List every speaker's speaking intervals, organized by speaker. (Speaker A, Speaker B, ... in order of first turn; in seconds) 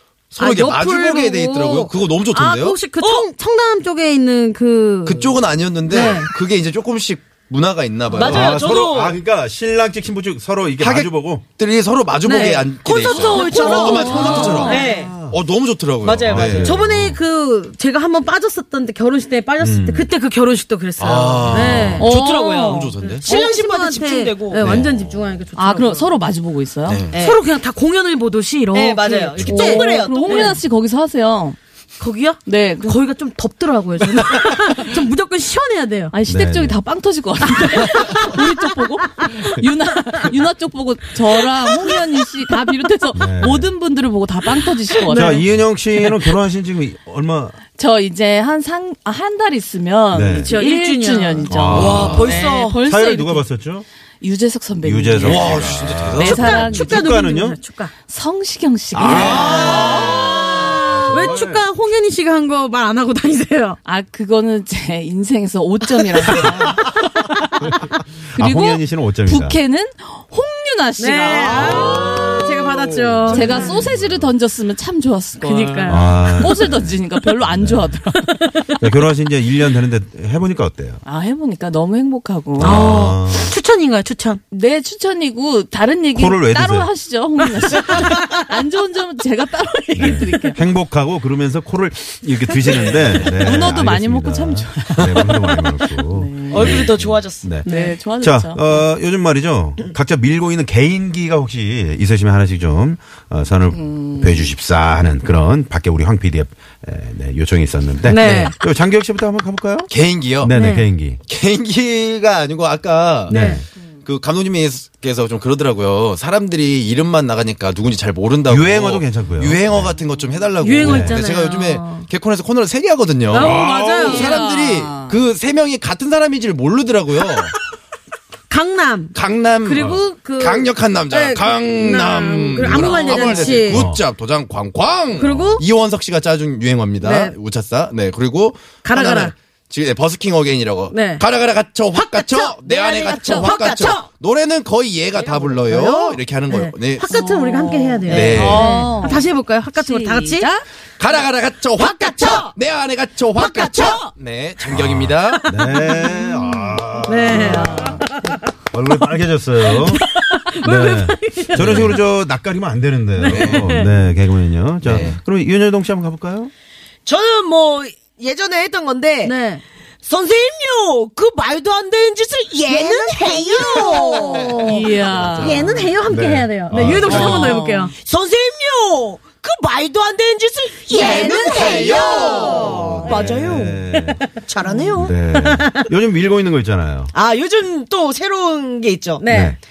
Speaker A: 0.3-2.8, 5.0-8.9, 10.8-16.8, 21.0-23.3, 24.6-24.9, 26.9-27.2, 51.7-52.2, 55.2-56.5, 59.0-60.4, 109.9-110.5, 111.3-127.5, 129.1-147.1, 148.1-148.9, 151.0-155.6, 161.6-161.9, 163.3-163.7, 164.8-165.2, 175.0-175.9, 181.4-183.0
Speaker B: 0.4-6.3, 12.2-14.9, 16.6-22.1, 23.0-26.1, 27.1-30.6, 32.0-36.1, 37.8-38.2, 45.1-45.4, 50.4-51.5, 56.2-57.9, 59.1-63.8, 71.0-73.8, 75.4-76.6, 82.6-84.4, 87.9-88.4, 90.0-90.5, 97.7-98.0, 108.0-108.5, 110.5-110.9, 113.3-113.6, 120.6-122.1, 123.3-124.3, 128.5-133.9, 135.2-135.6, 137.0-137.3, 138.8-139.3, 140.9-141.2, 141.9-144.0, 145.2-150.5, 155.9-158.4, 159.7-162.0, 163.2-163.9, 169.2-169.6, 172.7-177.9, 180.9-184.2, 185.3-185.9, 189.2-189.6
Speaker C: 3.0-3.3, 8.1-9.2, 12.8-15.3, 16.0-16.7, 22.0-24.7, 27.1-27.4, 28.7-30.6, 51.7-52.8, 96.5-97.5, 142.7-144.1, 151.8-152.5, 153.3-154.1, 167.1-169.3, 170.1-174.7, 178.0-183.8, 184.5-185.1, 187.1-189.2
Speaker D: 8.2-11.4, 14.8-15.4, 16.2-17.2, 19.6-20.1, 21.5-22.0, 24.6-25.3, 36.3-36.8, 43.1-43.7, 45.1-47.6, 50.1-50.5, 51.5-53.9, 54.8-57.6, 58.9-61.6, 66.3-66.9, 67.7-69.6, 71.5-74.3, 75.9-78.0, 78.8-81.0, 82.6-83.5, 86.2-86.9, 90.0-97.7, 98.2-111.2, 113.3-113.6, 118.5-120.0, 120.8-121.2, 123.4-123.9, 132.6-134.0, 154.7-158.1, 158.7-166.5, 176.1-177.6, 183.0-184.3, 184.9-187.1, 189.3-189.6
Speaker E: 13.7-14.9, 22.0-22.9, 25.6-27.0, 29.4-31.6, 32.5-33.0, 36.1-45.4, 47.8-53.5, 54.2-57.1, 58.1-60.1, 63.9-66.8, 68.3-72.3, 73.3-78.5, 81.0-82.9, 84.5-90.6, 93.1-96.9, 97.7-98.9, 103.7-104.5, 123.4-125.2, 147.1-150.6, 157.3-157.9, 174.6-175.6, 176.8-177.9